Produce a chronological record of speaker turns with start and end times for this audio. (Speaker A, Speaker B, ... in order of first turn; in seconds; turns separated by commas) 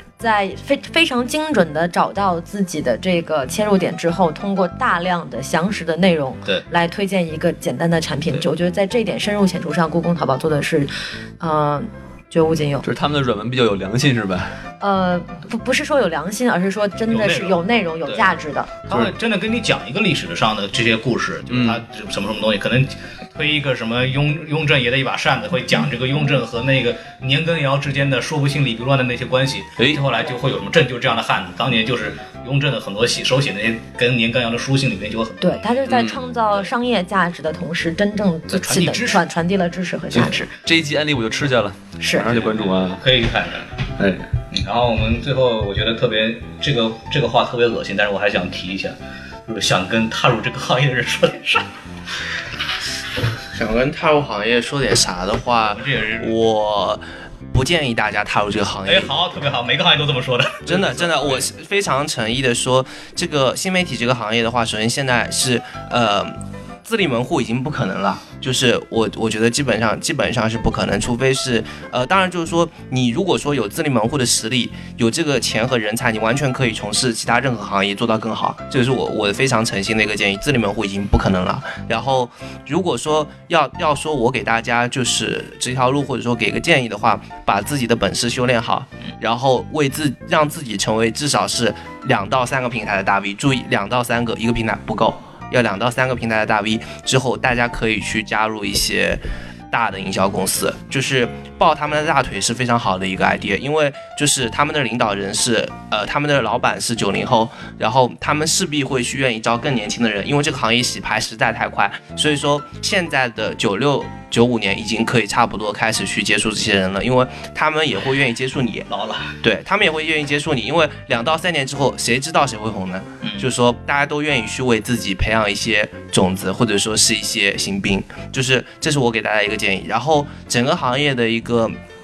Speaker A: 0.2-12.9, Speaker B: 12.8-14.6, Speaker A: 14.8-18.9, Speaker C: 17.1-36.7, Speaker B: 21.5-21.8, Speaker A: 35.4-40.5, Speaker B: 35.9-36.2, Speaker C: 38.5-39.3, Speaker B: 40.1-43.0, Speaker A: 42.0-42.3, Speaker C: 42.2-43.8, Speaker B: 44.0-44.3, Speaker C: 44.5-49.0, Speaker C: 49.5-51.7, Speaker D: 53.5-59.1, Speaker C: 55.7-56.4, Speaker C: 58.9-61.5, Speaker D: 60.7-66.3, Speaker D: 66.8-118.9, Speaker C: 118.9-119.4, Speaker D: 119.4-131.7, Speaker C: 123.2-123.5